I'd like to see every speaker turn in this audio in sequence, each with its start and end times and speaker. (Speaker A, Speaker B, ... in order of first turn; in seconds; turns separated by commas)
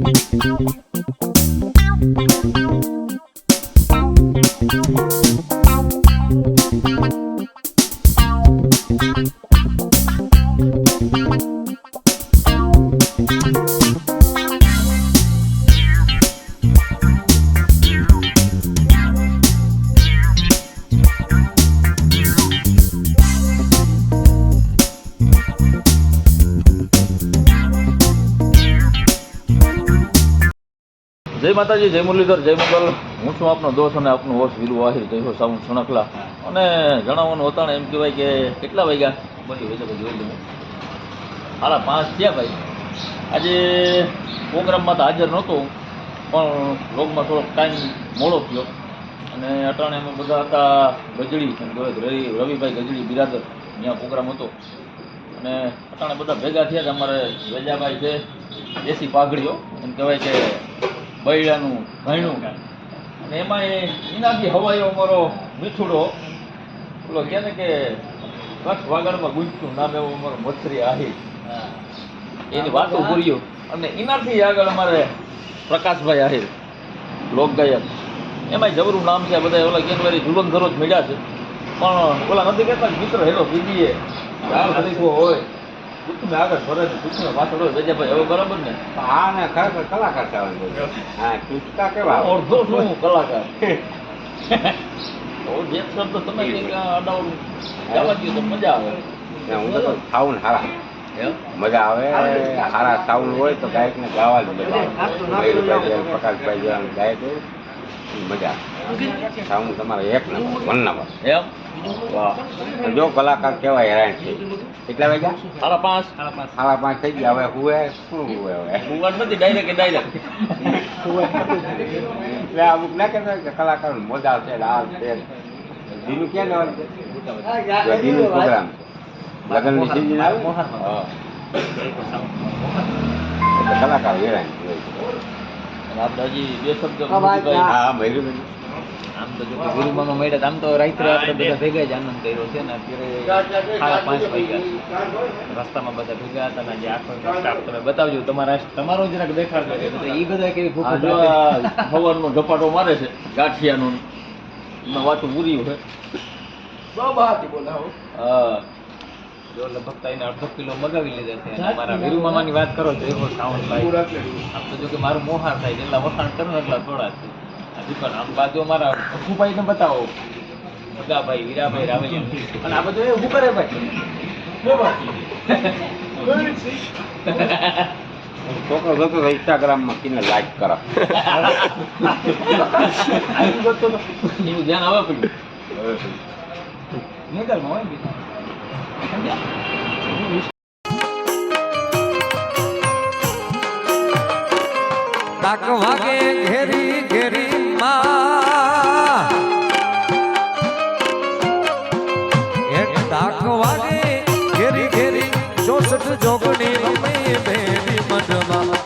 Speaker A: 31.3-40.4, Speaker A: 41.6-42.6, Speaker A: 43.3-45.7, Speaker A: 46.3-48.7, Speaker A: 49.3-54.5, Speaker A: 55.3-58.2, Speaker A: 58.8-60.6, Speaker A: 61.2-62.5, Speaker A: 63.2-66.1, Speaker A: 67.0-68.0, Speaker A: 68.6-71.2, Speaker A: 72.5-75.1, Speaker B: 72.5-73.2, Speaker A: 75.7-76.5, Speaker A: 77.3-77.9, Speaker A: 78.5-81.2, Speaker A: 81.8-85.5, Speaker A: 86.0-88.8, Speaker C: 88.9-92.9, Speaker A: 92.0-93.5, Speaker A: 94.5-94.8, Speaker A: 95.4-99.0, Speaker C: 96.4-96.7, Speaker C: 97.9-98.2, Speaker C: 99.4-100.8, Speaker A: 99.5-99.9, Speaker A: 101.1-101.4, Speaker C: 101.5-107.4, Speaker A: 105.1-105.4, Speaker C: 108.1-111.1, Speaker A: 111.2-112.4, Speaker C: 112.7-115.4, Speaker A: 115.6-116.1, Speaker B: 116.2-116.5, Speaker C: 116.5-119.0, Speaker A: 118.8-120.3, Speaker B: 120.8-122.1, Speaker C: 120.9-125.3, Speaker C: 125.9-126.9, Speaker B: 127.3-127.7, Speaker C: 127.6-128.8, Speaker C: 129.5-131.0, Speaker B: 129.5-131.0, Speaker B: 131.8-132.9, Speaker C: 133.5-135.0, Speaker A: 135.9-137.8, Speaker C: 137.5-138.5, Speaker B: 139.2-151.9, Speaker A: 141.0-141.6, Speaker A: 150.8-154.0, Speaker A: 154.8-155.8, Speaker A: 158.2-158.6, Speaker B: 159.5-170.1, Speaker B: 171.0-173.8, Speaker B: 174.6-176.6, Speaker B: 177.2-177.9, Speaker C: 178.4-181.1, Speaker A: 181.1-183.6, Speaker B: 181.5-184.3, Speaker A: 184.4-185.3, Speaker C: 185.8-186.1, Speaker B: 187.3-188.2, Speaker D: 195.4-199.1, Speaker D: 202.7-208.6